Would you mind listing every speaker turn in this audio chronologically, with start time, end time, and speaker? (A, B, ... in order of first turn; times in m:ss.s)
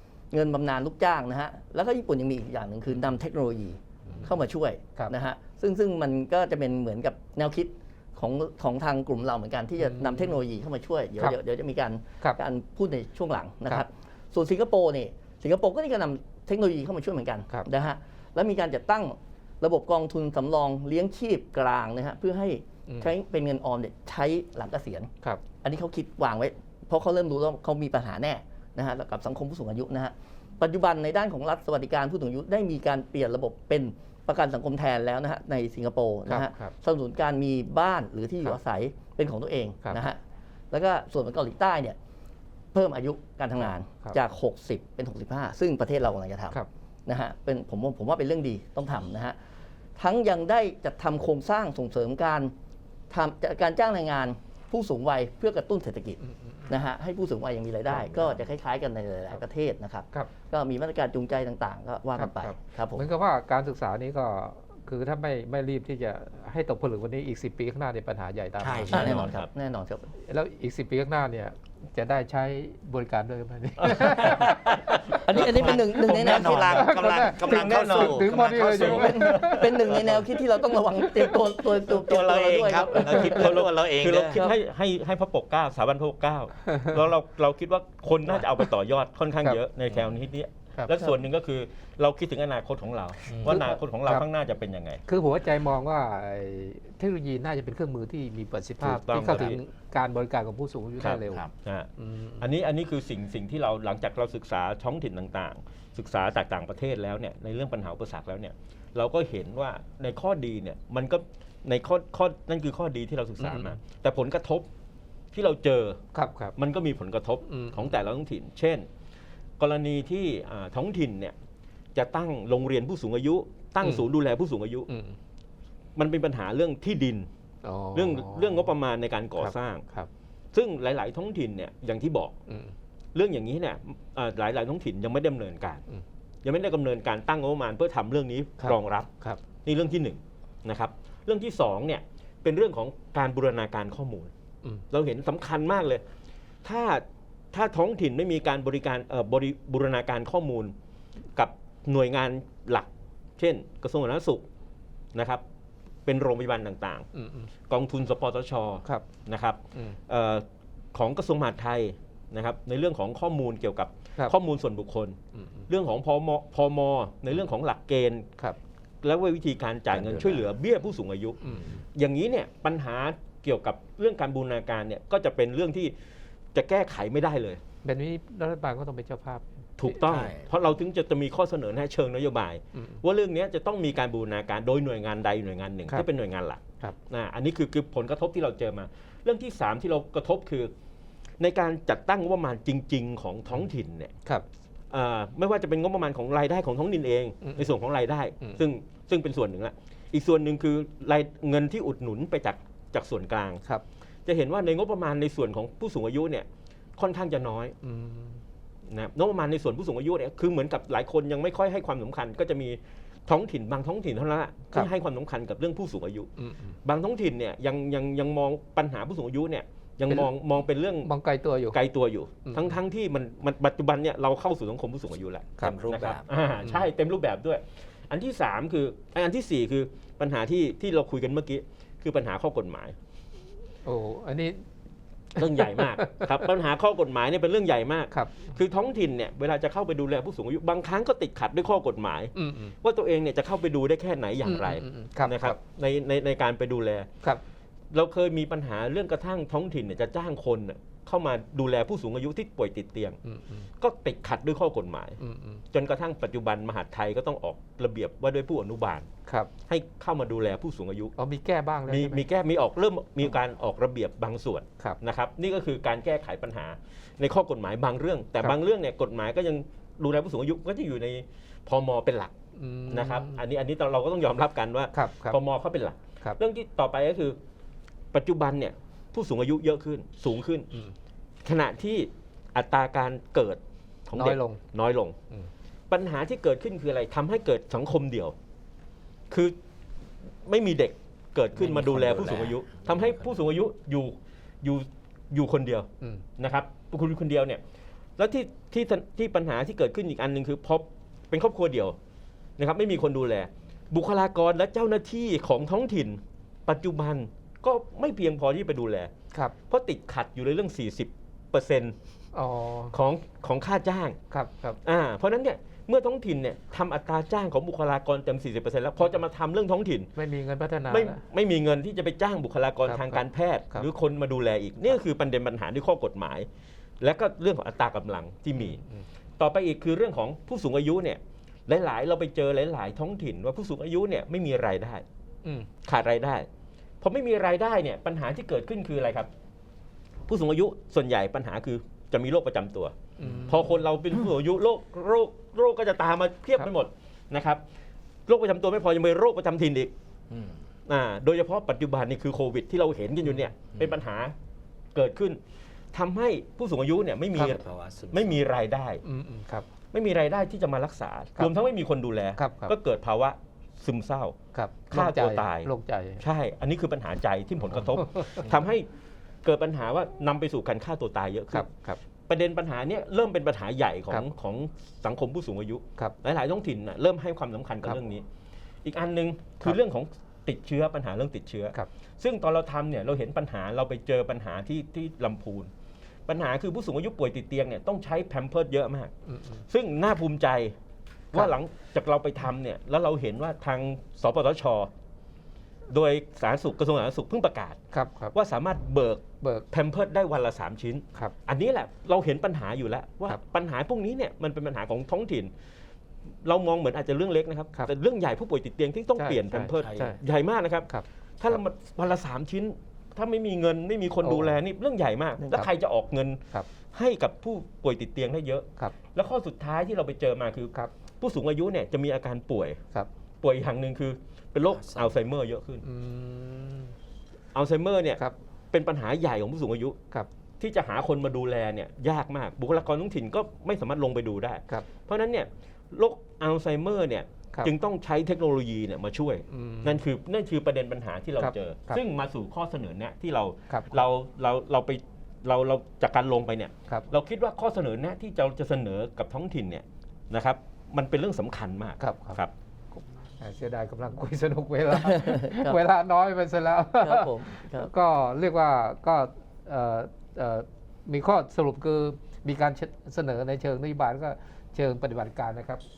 0:00.3-0:25.1 A
0:04.0-0:04.4 B
0:09.8-0:10.4 B
0:22.9-0:23.1 B
0:25.6-0:40.2 A
0:36.2-0:36.7 B
0:40.7-0:42.0 A
0:42.7-0:49.4 A
0:50.0-0:52.5 A
0:53.1-1:03.0 A
0:56.2-0:56.7 B
0:57.9-0:58.4 C
1:02.2-1:09.1 B
1:08.6-1:09.3 C
1:08.9-1:09.5 D
1:08.9-1:10.1 A
1:10.2-1:14.7 B
1:13.8-1:14.5 D
1:14.2-1:19.5 C
1:15.2-1:16.9 A
1:15.7-1:20.3 D
1:16.7-1:19.7 B
1:19.0-1:23.5 A
1:21.9-1:24.4 C
1:22.9-1:35.0 D
1:33.3-1:33.6 C
1:33.5-1:34.2 B
1:35.1-1:41.4 B
1:38.8-1:39.6 D
1:41.0-1:41.9 D
1:42.0-1:42.4 B
1:42.4-1:54.7 D
1:53.4-1:53.8 B
1:55.3-1:56.0 D
1:56.1-1:56.5 B
1:56.6-1:58.9 D
1:57.5-1:57.9 B
1:59.6-2:01.4 D
2:01.9-2:04.9 D
2:03.8-2:04.1 B
2:04.9-2:05.2 B
2:06.0-2:07.3 D
2:07.6-2:08.7 B
2:07.9-2:09.8 D
2:09.4-2:10.1 B
2:10.5-2:12.4 D
2:12.5-2:12.7 B
2:13.1-2:15.8 D
2:16.4-2:19.1 D
2:18.6-2:19.4 B
2:19.6-2:24.3 D
2:24.9-2:26.0 D
2:26.6-2:30.7 D
2:31.4-2:34.4 D
2:35.1-2:35.4 D
2:36.0-2:37.1 D
2:37.1-2:37.5 B
2:37.7-2:48.3 D
2:45.3-2:45.7 B
2:49.0-2:51.4 D
2:49.9-2:50.4 C
2:51.4-2:51.7 B
2:51.9-2:55.9 D
2:56.5-2:57.6 D
2:57.8-3:00.0 B
2:59.8-3:10.7 D
3:00.0-3:00.5 C
3:02.7-3:03.0 B
3:11.4-3:14.1 D
3:14.9-3:23.6 D
3:17.4-3:17.7 B
3:24.2-3:27.8 D
3:27.8-3:28.4 B
3:28.9-3:36.3 D
3:36.4-3:36.8 B
3:36.8-3:41.1 D
3:40.1-3:40.3 B
3:41.0-3:41.8 B
3:41.7-3:53.0 D
3:42.4-3:42.8 B
3:45.6-3:46.2 C
3:53.8-3:54.6 B
3:55.3-3:56.4 B
3:55.4-4:07.1 D
3:58.1-3:58.6 B
4:02.3-4:02.7 B
4:04.4-4:05.6 B
4:07.9-4:13.2 D
4:13.2-4:13.7 B
4:13.8-4:15.2 D
4:15.2-4:15.6 B
4:15.7-4:19.1 D
4:19.7-4:21.1 D
4:21.2-4:22.2 B
4:21.8-4:32.3 D
4:32.6-4:33.4 B
4:32.9-4:37.4 D
4:34.9-4:35.4 B
4:38.1-4:40.7 D
4:41.4-4:45.2 D
4:44.1-4:44.6 B
4:45.9-4:48.3 D
4:49.3-4:49.6 D
4:50.4-4:57.6 D
4:51.6-4:53.4 C
4:58.2-5:02.0 D
5:02.6-5:09.1 D
5:09.7-5:11.9 D
5:12.3-5:12.9 B
5:12.9-5:14.2 D
5:14.3-5:14.8 B
5:14.8-5:20.1 D
5:20.1-5:21.2 B
5:20.9-5:26.5 D
5:22.8-5:23.9 B
5:27.0-5:28.8 D
5:28.5-5:29.0 B
5:29.4-5:35.0 D
5:35.8-5:36.5 D
5:37.0-5:39.3 D
5:40.3-5:42.9 D
5:43.2-5:43.8 B
5:43.4-5:47.6 D
5:48.3-5:49.9 D
5:50.3-5:50.6 C
5:50.9-5:54.3 D
5:54.9-5:55.4 D
5:55.9-5:59.0 D
5:57.4-5:58.4 C
5:59.0-5:59.6 B
5:59.9-6:04.4 D
6:02.4-6:02.7 B
6:04.5-6:06.2 B
6:04.9-6:08.9 D
6:08.1-6:08.4 B
6:09.4-6:11.7 D
6:11.5-6:12.0 B
6:12.3-6:18.2 D
6:18.8-6:25.7 D
6:26.2-6:29.1 D
6:29.3-6:29.6 B
6:29.7-6:30.8 D
6:31.3-6:34.9 D
6:35.9-6:37.8 D
6:37.9-6:38.3 B
6:38.3-6:45.5 D
6:46.4-7:02.8 D
6:49.2-6:50.2 B
6:49.8-6:50.1 C
6:50.9-6:51.6 B
6:54.2-6:54.5 B
7:03.4-7:05.8 D
7:04.7-7:05.1 C
7:05.8-7:06.9 B
7:07.5-7:10.0 D
7:10.6-7:32.5 D
7:19.5-7:20.0 B
7:21.4-7:22.0 B
7:23.7-7:24.0 B
7:32.0-7:32.4 B
7:33.0-7:45.8 B
7:34.9-7:35.8 A
7:37.0-7:37.9 A